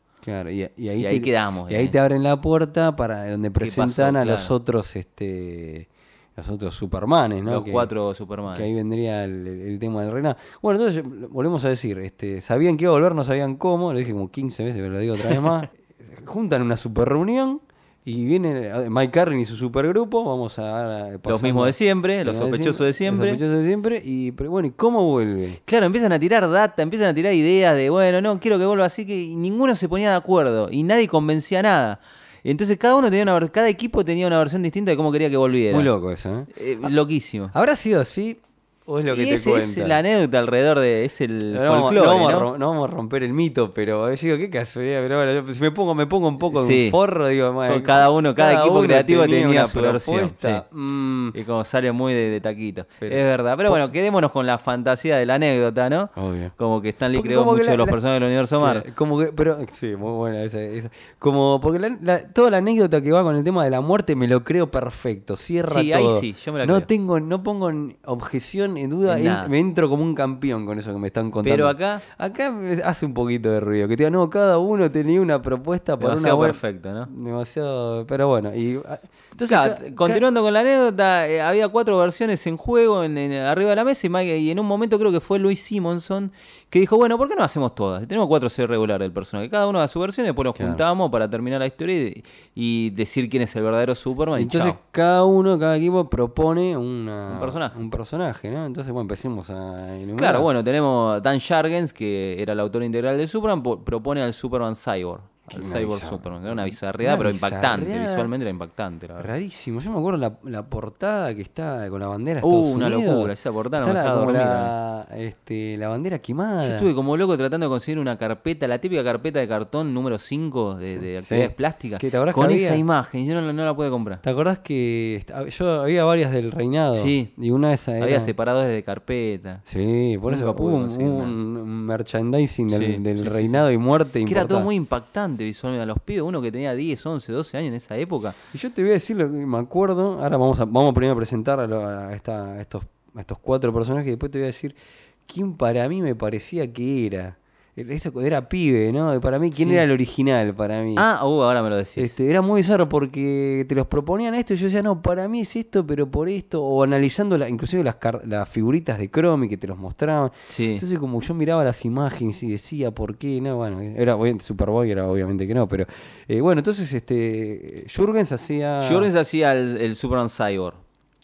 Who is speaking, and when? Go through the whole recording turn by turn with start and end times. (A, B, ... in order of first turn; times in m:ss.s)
0:00.2-0:07.9 A
0:01.0-0:02.0 B
0:03.6-0:04.5 B
0:07.5-0:08.7 B
0:08.5-0:25.6 A
0:21.3-0:23.4 B
0:25.7-0:35.9 B
0:35.7-0:36.9 A
0:36.5-0:37.5 B
0:37.5-0:40.0 A
0:39.1-0:42.5 B
0:41.5-0:51.4 A
0:46.5-0:47.0 B
0:47.7-0:50.6 B
0:51.3-0:58.8 B
0:53.0-0:53.8 A
0:56.2-0:56.5 A
0:57.1-0:58.0 A
0:58.6-1:20.2 A
1:05.7-1:06.9 B
1:09.1-1:09.5 B
1:11.4-1:12.0 B
1:16.0-1:17.1 B
1:19.4-1:34.8 B
1:30.6-1:30.8 A
1:34.4-1:40.5 A
1:37.3-1:37.8 B
1:40.2-1:49.3 B
1:45.5-1:48.3 A
1:49.2-1:56.9 A
1:52.4-1:54.7 B
1:56.6-2:04.2 B
2:00.9-2:02.8 A
2:04.2-2:08.3 A
2:07.0-2:07.3 B
2:08.0-2:09.6 B
2:09.6-2:14.7 A
2:10.3-2:11.4 B
2:12.7-2:13.6 B
2:14.2-2:18.4 B
2:18.5-2:31.1 A
2:29.6-2:29.8 B
2:31.0-2:32.1 B
2:32.0-2:49.1 A
2:40.5-2:40.8 B
2:48.8-2:50.8 B